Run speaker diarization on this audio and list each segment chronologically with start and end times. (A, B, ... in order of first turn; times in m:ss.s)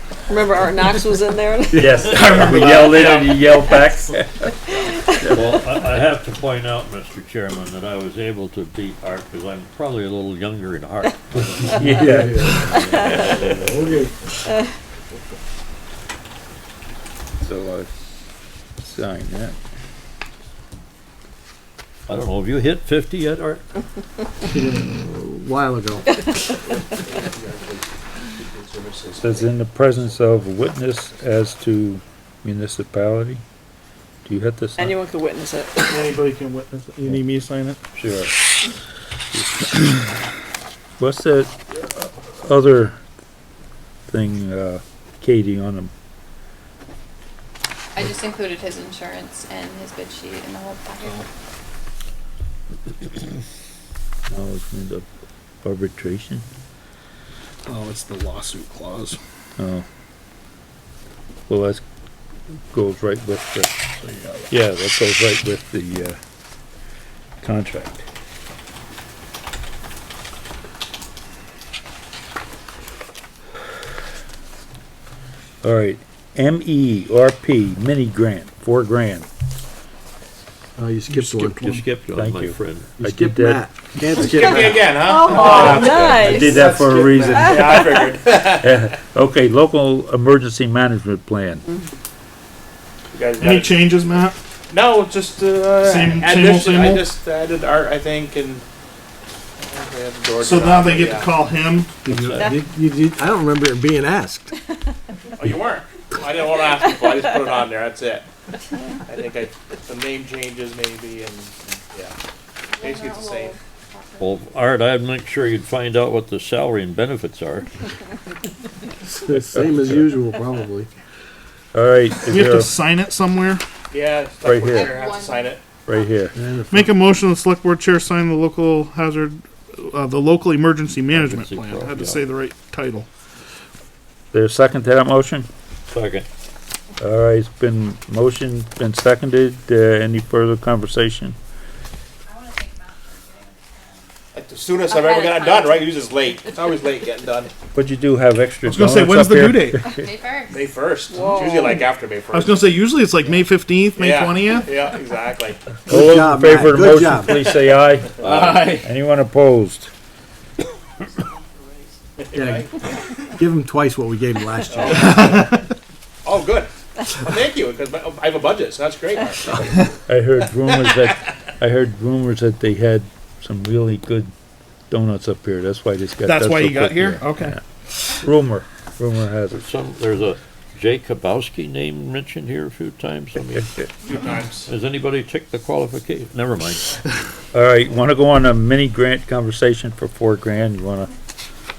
0:00.3-0:02.3 A
0:01.7-0:04.5 B
0:02.0-0:03.0 C
0:02.0-0:02.9 D
0:05.1-0:05.7 B
0:05.2-0:14.0 C
0:11.6-0:12.6 B
0:11.9-0:14.2 E
0:17.4-0:17.9 B
0:18.8-0:19.6 B
0:22.1-0:23.6 C
0:24.5-0:26.1 E
0:26.9-0:27.8 F
0:28.4-0:29.5 F
0:29.2-0:33.4 B
0:34.2-0:35.0 B
0:34.8-0:36.1 A
0:35.8-0:37.8 D
0:38.0-0:38.4 B
0:39.3-0:40.0 B
0:41.0-0:43.0 B
0:44.1-0:45.9 B
0:48.0-0:51.3 G
0:54.3-0:55.1 B
0:55.6-0:56.4 B
0:57.6-0:59.2 D
0:59.6-0:59.8 B
1:01.5-1:01.8 B
1:02.7-1:03.8 B
1:04.0-1:04.5 D
1:04.5-1:06.2 B
1:07.4-1:08.1 B
1:15.6-1:19.3 B
1:20.8-1:21.8 E
1:21.1-1:22.9 C
1:22.2-1:23.6 B
1:23.0-1:24.9 E
1:24.1-1:28.7 F
1:24.3-1:28.0 A
1:25.5-1:31.6 B
1:33.1-1:33.9 F
1:33.4-1:34.4 D
1:34.7-1:38.7 F
1:35.8-1:37.1 D
1:39.6-1:41.4 F
1:40.4-1:42.4 D
1:42.0-1:44.5 E
1:42.1-1:42.6 C
1:45.4-1:48.3 F
1:49.0-1:52.2 F
1:52.7-1:54.4 G
1:52.8-1:53.6 F
1:54.2-1:57.7 C
1:59.2-2:00.9 E
2:01.7-2:02.7 B
2:02.2-2:03.6 D
2:03.9-2:05.6 F
2:04.4-2:04.9 B
2:04.7-2:06.1 G
2:05.9-2:06.3 B
2:06.4-2:07.0 E
2:06.7-2:13.1 D
2:11.1-2:12.2 C
2:14.3-2:15.5 B
2:15.9-2:16.3 C
2:17.0-2:21.4 B
2:22.3-2:24.1 G
2:24.3-2:27.5 F
2:24.9-2:25.9 G
2:27.7-2:30.1 B
2:28.6-2:29.9 D
2:29.8-2:30.6 G
2:30.5-2:32.7 F
2:31.1-2:31.9 A
2:32.3-2:34.8 D
2:34.0-2:35.8 F
2:35.9-2:37.6 E
2:35.9-2:39.9 B
2:38.2-2:38.8 F
2:42.2-2:43.3 F
2:42.3-2:42.7 E
2:43.4-2:45.3 E
2:44.7-2:45.4 F
2:45.2-2:45.6 D
2:46.2-2:49.9 F
2:49.9-2:54.3 B
2:54.9-2:57.6 B
2:56.2-2:57.6 D
2:58.2-2:59.6 B
2:59.5-3:03.8 C
3:03.5-3:03.9 B
3:04.0-3:04.7 F
3:04.7-3:06.9 C
3:07.5-3:11.1 B